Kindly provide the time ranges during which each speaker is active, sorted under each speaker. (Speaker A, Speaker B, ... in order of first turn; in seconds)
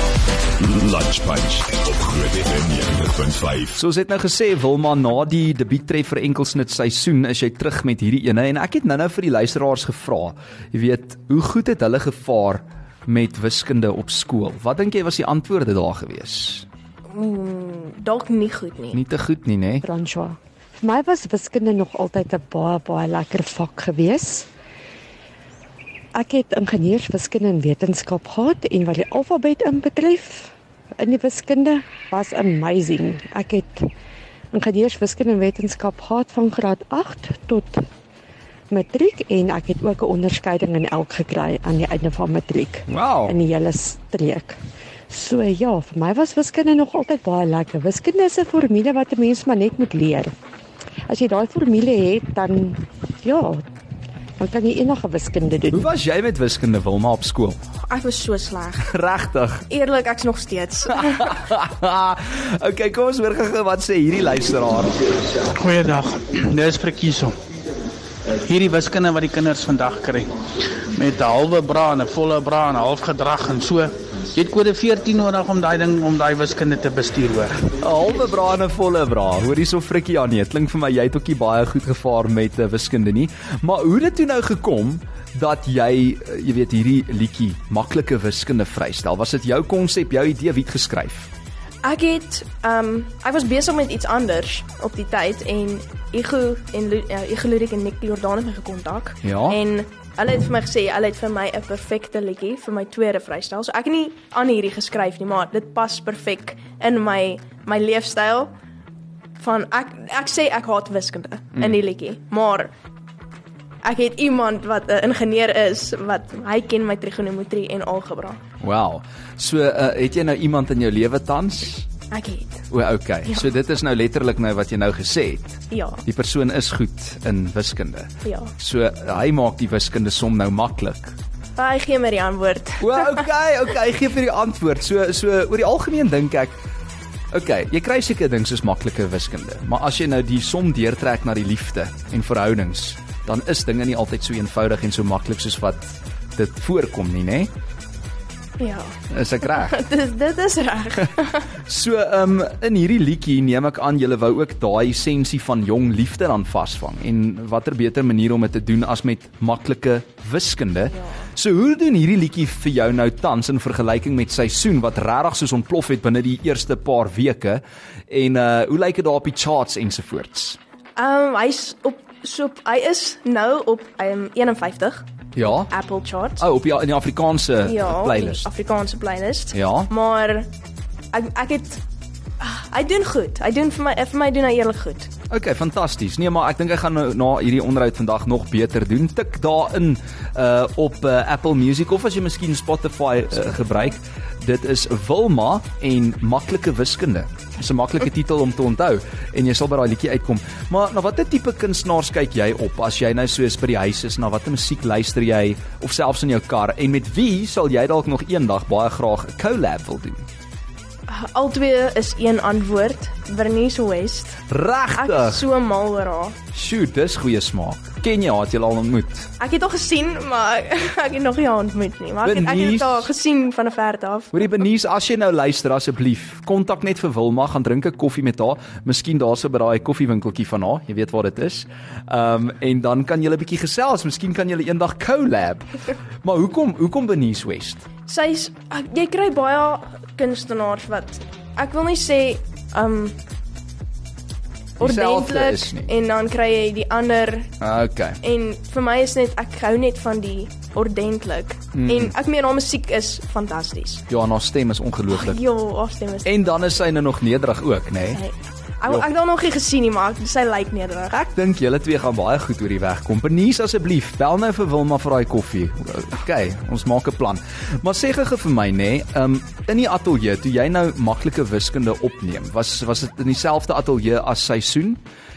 Speaker A: 0.6-3.8
Speaker B: 3.8-16.6, 18.9-19.8, 42.9-43.3, 55.7-57.6, 58.8-59.7, 60.9-65.0, 77.8-91.3, 99.2-99.6, 118.6-121.9, 122.7-131.2, 132.8-136.6, 137.3-147.5, 149.1-149.8, 151.0-170.6, 175.3-175.7, 176.4-178.5, 179.5-179.9, 185.3-210.2, 214.5-215.5, 216.5-219.3, 222.2-223.1, 224.3-235.7, 236.2-237.8, 244.8-245.9, 247.6-248.2, 251.7-252.1, 254.1-255.4, 256.2-258.2, 261.1-275.0
Speaker C: 17.1-19.0, 57.9-58.8, 59.7-61.2, 91.8-108.5, 109.4-112.7, 113.8-118.4, 122.1-122.6, 125.7-126.0, 128.2-128.5, 131.6-133.1, 148.6-148.9, 149.6-151.4, 171.0-175.0, 175.7-176.4, 177.7-180.5, 181.1-181.8, 182.4-185.1, 211.1-214.4, 215.0-216.3, 219.4-224.4, 238.1-243.1, 244.8-247.5, 248.2-254.0, 255.1-256.3, 258.1-261.1
Speaker D: 19.8-24.5, 26.1-33.9, 34.5-37.8, 38.7-44.6, 45.1-50.3, 51.1-53.6, 54.4-55.9
Speaker E: 65.5-67.3, 68.4-70.3, 70.9-77.6